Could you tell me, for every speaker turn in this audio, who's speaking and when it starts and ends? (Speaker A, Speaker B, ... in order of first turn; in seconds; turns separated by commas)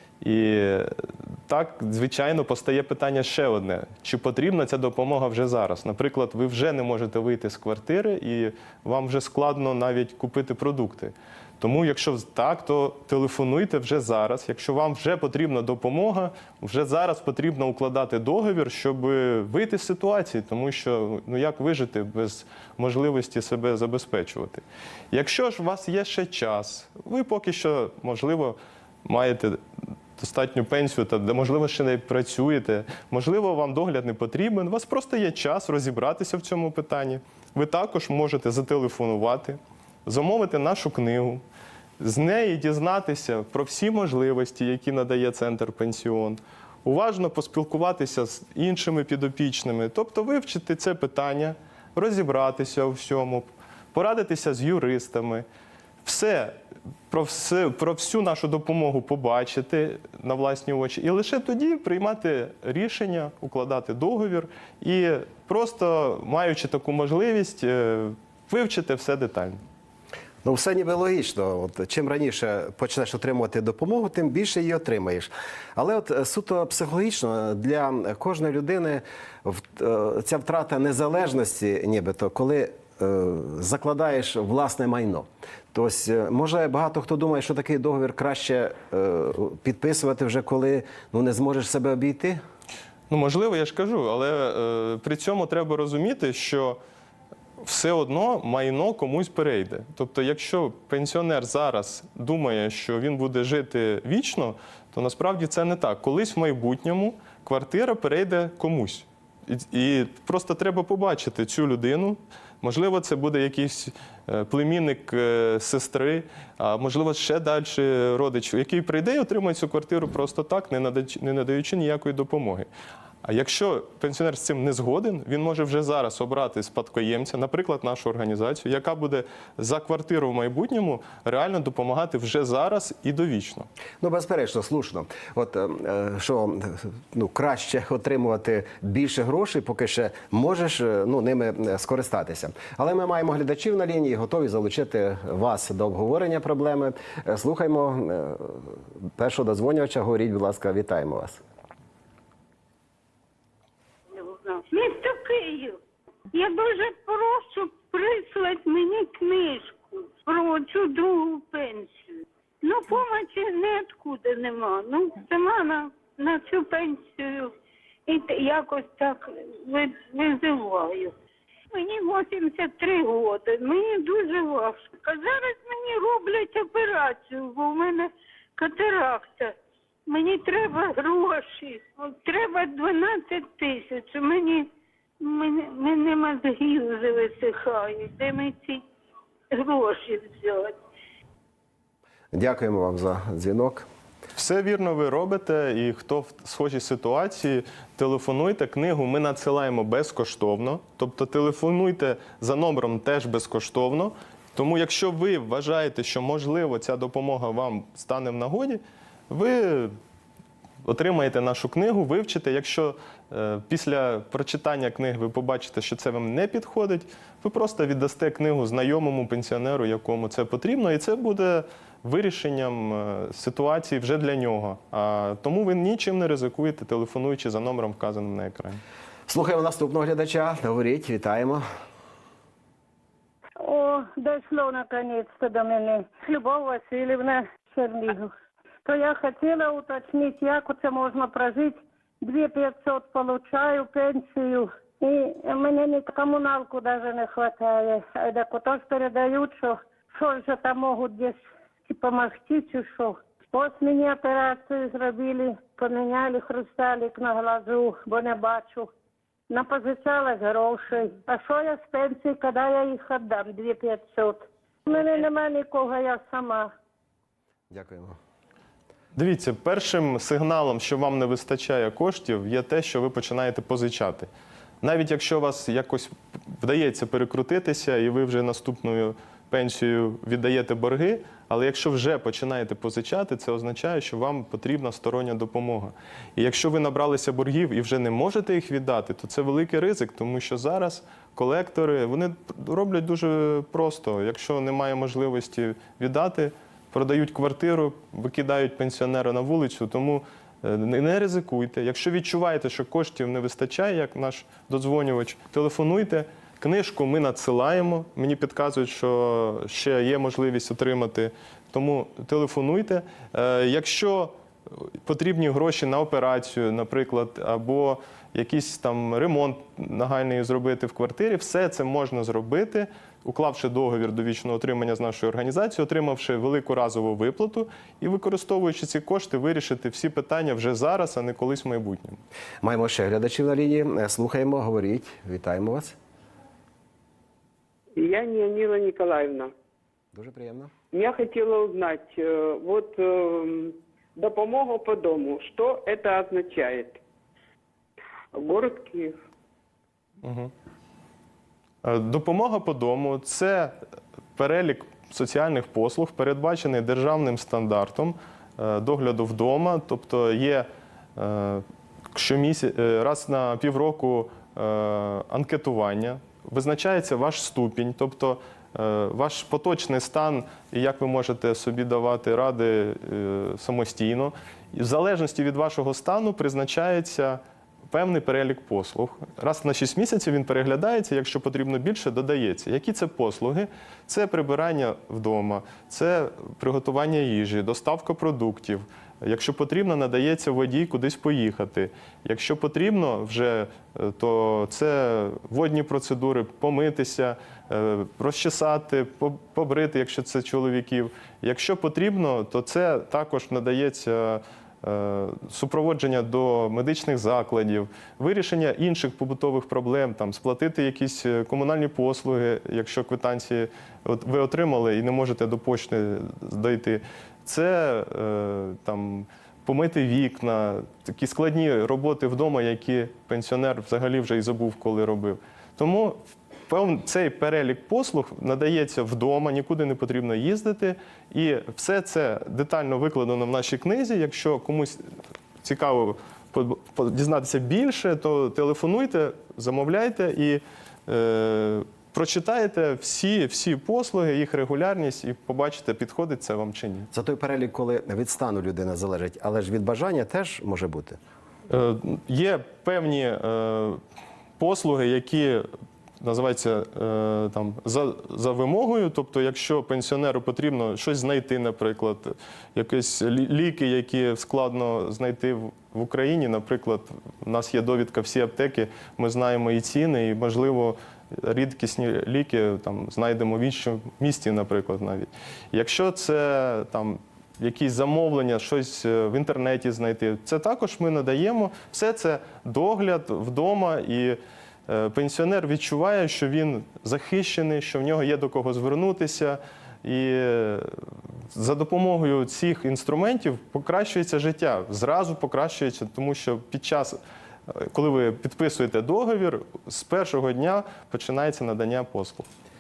Speaker A: 0.2-29.6, Speaker A: 30.2-41.4, Speaker A: 42.0-55.5, Speaker A: 56.0-56.6, Speaker A: 57.1-69.6, Speaker B: 70.4-92.4, Speaker A: 93.1-96.8, Speaker A: 97.6-122.7, Speaker A: 123.2-133.7, Speaker B: 134.0-151.4, Speaker C: 154.1-155.8, Speaker C: 156.3-167.5, Speaker C: 168.1-171.2, Speaker C: 171.7-179.6, Speaker C: 180.1-184.7, Speaker C: 185.2-188.8, Speaker C: 189.5-190.8, Speaker B: 192.3-193.9, Speaker A: 194.4-210.0, Speaker A: 210.8-228.8, Speaker B: 229.3-231.6, Speaker D: 233.6-238.3, Speaker D: 238.8-258.9, Speaker D: 259.5-266.7, Speaker B: 267.7-268.2, Speaker A: 269.1-274.3, Speaker A: 274.8-332.2, Speaker B: 332.6-336.0, Speaker E: 338.0-339.5, Speaker B: 340.1-340.7, Speaker E: 340.9-347.0, Speaker E: 348.3-349.2, Speaker A: 350.2-350.5, Speaker A: 351.8-353.8, Speaker A: 354.4-435.0, Speaker A: 435.6-447.1, Speaker B: 447.1-451.2, Speaker A: 451.7-454.0, Speaker A: 454.6-455.7, Speaker A: 456.2-502.5